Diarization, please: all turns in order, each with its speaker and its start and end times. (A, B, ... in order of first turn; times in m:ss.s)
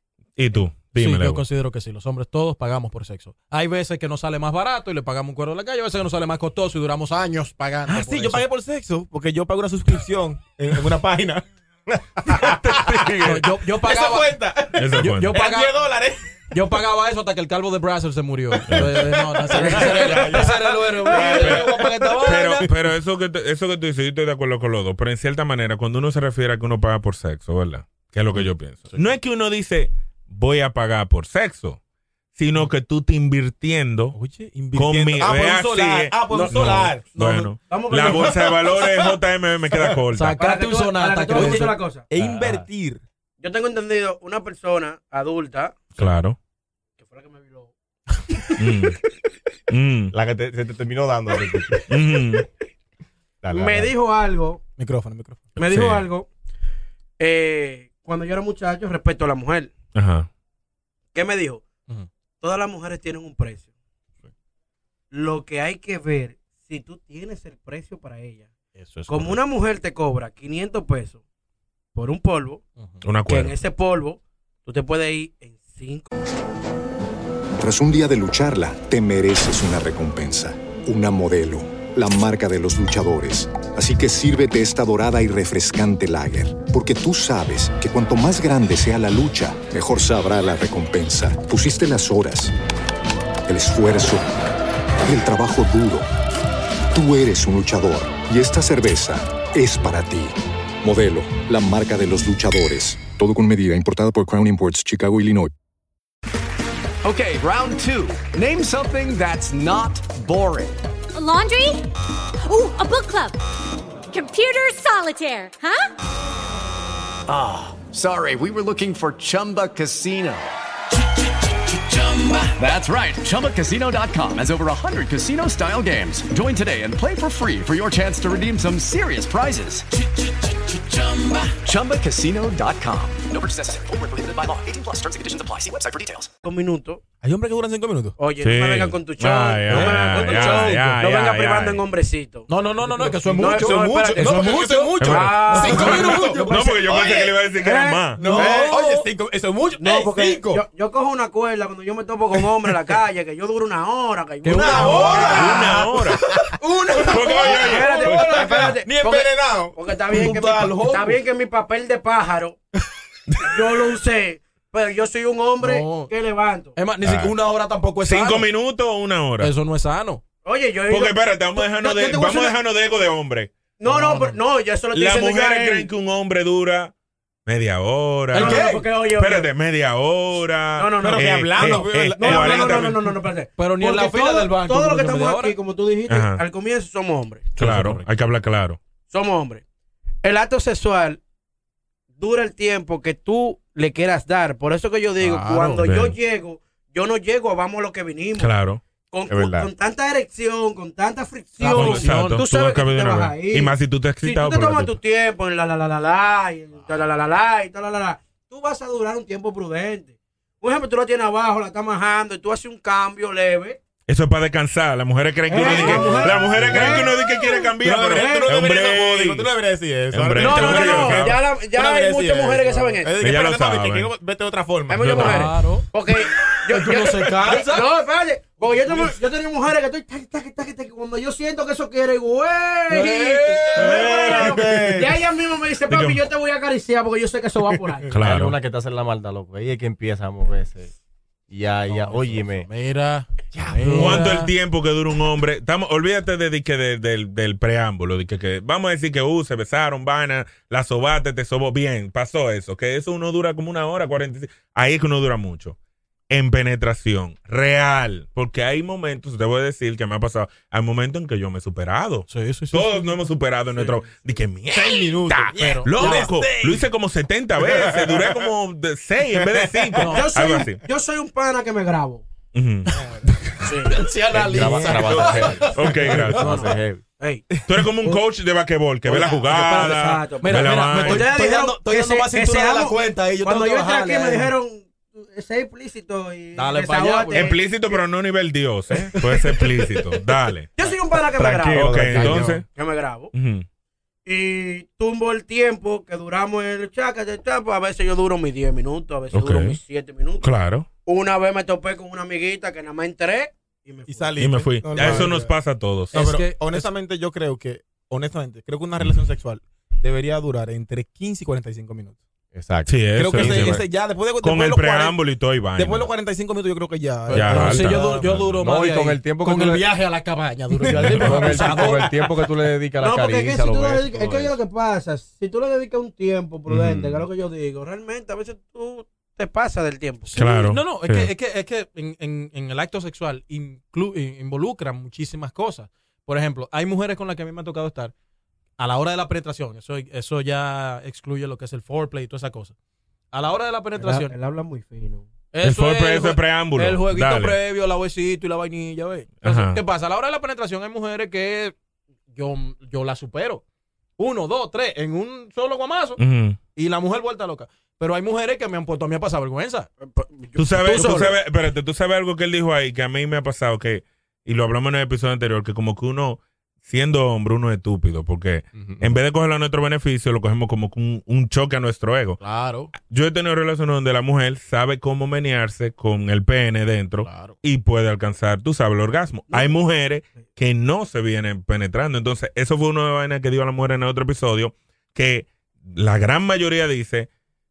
0:00.4-0:01.4 A
0:00.9-0:08.4 B
0:07.8-0:11.4 C
0:12.0-0:16.4 C
0:12.3-0:14.3 B
0:14.8-0:15.3 A
0:15.0-0:15.7 B
0:16.5-0:22.7 B
0:18.5-0:22.7 C
0:18.7-0:19.1 A
0:21.2-0:21.7 A
0:22.2-0:31.8 A
0:32.3-0:34.2 A
0:34.1-0:37.2 C
0:34.7-0:40.4 A
0:36.3-0:36.6 D
0:37.2-0:38.5 D
0:38.0-0:38.9 C
0:40.1-0:41.8 B
0:40.4-0:42.0 D
0:41.3-0:43.0 C
0:42.1-0:42.7 E
0:43.4-0:45.8 D
0:46.0-0:46.4 A
0:47.0-0:47.7 D
0:48.6-0:49.0 A
0:49.7-0:50.1 A
0:50.1-0:51.9 E
0:51.9-0:52.4 A
0:53.4-0:53.9 E
0:53.5-0:54.6 D
0:54.8-0:55.5 C
0:55.6-0:56.3 D
0:55.6-0:56.0 A
0:57.2-0:59.7 D
0:59.9-1:00.3 A
1:01.1-1:01.6 D
1:02.4-1:03.7 D
1:05.1-1:08.5 D
1:08.7-1:09.4 B
1:09.1-1:11.2 D
1:11.9-1:12.6 D
1:12.8-1:13.0 B
1:13.0-1:13.6 A
1:13.3-1:16.1 D
1:17.6-1:32.5 F
1:33.5-1:34.3 F
1:35.0-1:36.1 F
1:36.9-1:45.5 F
1:47.0-1:50.8 G
1:51.1-1:51.9 H
1:52.4-1:53.4 H
1:54.1-1:55.9 H
1:57.3-2:00.5 G
2:01.6-2:16.3 G
2:16.4-2:17.0 D
2:17.2-2:18.1 C
2:18.2-2:22.5 D
2:18.4-2:21.8 A
2:19.7-2:20.8 B
2:22.5-2:26.9 B
2:22.8-2:27.4 C
2:23.4-2:24.3 D
2:25.0-2:28.2 A
2:25.0-2:26.9 D
2:27.6-2:28.8 D
2:28.2-2:30.6 C
2:28.2-2:29.1 B
2:29.8-2:35.7 D
2:34.4-2:35.7 B
2:34.5-2:41.0 C
2:34.7-2:36.2 A
2:36.8-2:42.6 D
2:37.1-2:38.7 A
2:40.2-2:41.1 B
2:43.4-2:46.8 D
2:45.6-2:46.1 B
2:46.8-2:48.5 B
2:47.0-2:47.3 A
2:48.0-2:49.5 A
2:49.4-2:50.2 B
2:50.4-2:52.5 D
2:50.9-2:53.5 A
2:53.8-2:55.9 D
2:53.8-2:54.4 B
2:54.9-2:56.9 A
2:57.4-3:03.0 A
2:58.3-2:59.5 D
2:58.3-2:58.8 B
3:00.8-3:07.5 D
3:01.0-3:03.0 C
3:03.6-3:05.5 B
3:06.1-3:06.4 A
3:07.6-3:08.0 B
3:07.6-3:08.8 A
3:09.1-3:09.6 D
3:10.2-3:11.2 D
3:12.2-3:18.5 D
3:15.2-3:15.8 B
3:15.8-3:16.1 A
3:18.4-3:18.8 A
3:19.1-3:33.8 D
3:19.3-3:19.7 E
3:21.6-3:22.4 B
3:21.7-3:25.0 A
3:34.1-3:39.5 A
3:35.5-3:38.5 D
3:35.6-3:36.7 B
3:35.6-3:37.2 C
3:37.8-3:45.2 C
3:40.1-3:41.4 A
3:40.4-3:43.1 D
3:43.2-3:44.1 A
3:44.9-3:58.1 D
3:45.0-3:45.5 A
3:45.2-3:45.9 B
3:46.7-3:47.8 B
3:48.6-3:49.1 C
3:52.9-3:54.2 B
3:53.6-3:55.2 C
3:55.9-3:56.2 A
3:58.1-3:58.6 A
3:58.2-4:00.9 E
4:01.5-4:02.7 E
4:01.9-4:04.5 B
4:03.6-4:04.0 E
4:03.9-4:15.8 A
4:16.3-4:30.8 A
4:22.3-4:23.1 B
4:24.7-4:26.8 C
4:25.6-4:26.4 B
4:27.6-4:28.4 C
4:29.4-4:30.1 C
4:30.0-4:30.4 B
4:30.0-4:32.2 D
4:32.5-4:32.9 A
4:32.9-4:33.4 C
4:33.6-4:34.0 D
4:33.9-4:36.8 B
4:34.3-4:37.0 E
4:34.6-4:35.2 C
4:34.9-4:36.7 A
4:37.2-4:37.4 D
4:37.5-4:37.9 C
4:37.6-4:41.3 A
4:39.1-4:48.0 D
4:39.1-4:44.5 B
4:46.5-4:47.6 B
4:47.3-4:50.7 A
4:50.8-4:52.0 D
4:51.3-4:52.6 E
4:51.7-4:52.6 A
4:52.1-4:52.5 B
4:52.7-4:53.3 D
4:53.3-4:53.6 A
4:54.2-5:00.5 D
4:59.3-4:59.8 A
5:00.4-5:00.8 A
5:01.0-5:04.4 D
5:04.1-5:05.5 C
5:04.4-5:06.2 A
5:06.1-5:06.9 B
5:06.1-5:12.2 C
5:12.5-5:13.8 E
5:12.8-5:13.8 A
5:13.1-5:15.2 C
5:14.4-5:16.0 A
5:15.8-5:18.2 C
5:17.3-5:22.2 B
5:17.3-5:18.6 A
5:17.5-5:19.8 E
5:20.9-5:24.6 E
5:21.0-5:22.2 C
5:23.0-5:30.3 D
5:26.7-5:27.2 A
5:30.3-5:38.1 B
5:30.4-5:31.3 A
5:38.8-5:42.7 B
5:43.3-5:44.3 B
5:44.0-5:45.2 D
5:45.5-5:51.7 B
5:45.6-5:47.6 A
5:49.4-5:49.8 A
5:52.3-5:53.6 B
5:54.2-5:56.2 B
5:56.2-5:56.6 A
5:56.7-5:59.9 B
6:00.0-6:01.4 D
6:00.6-6:12.4 A
6:00.9-6:01.3 B
6:08.7-6:09.1 E
6:12.4-6:12.9 B
6:12.9-6:27.3 A
6:17.2-6:17.6 B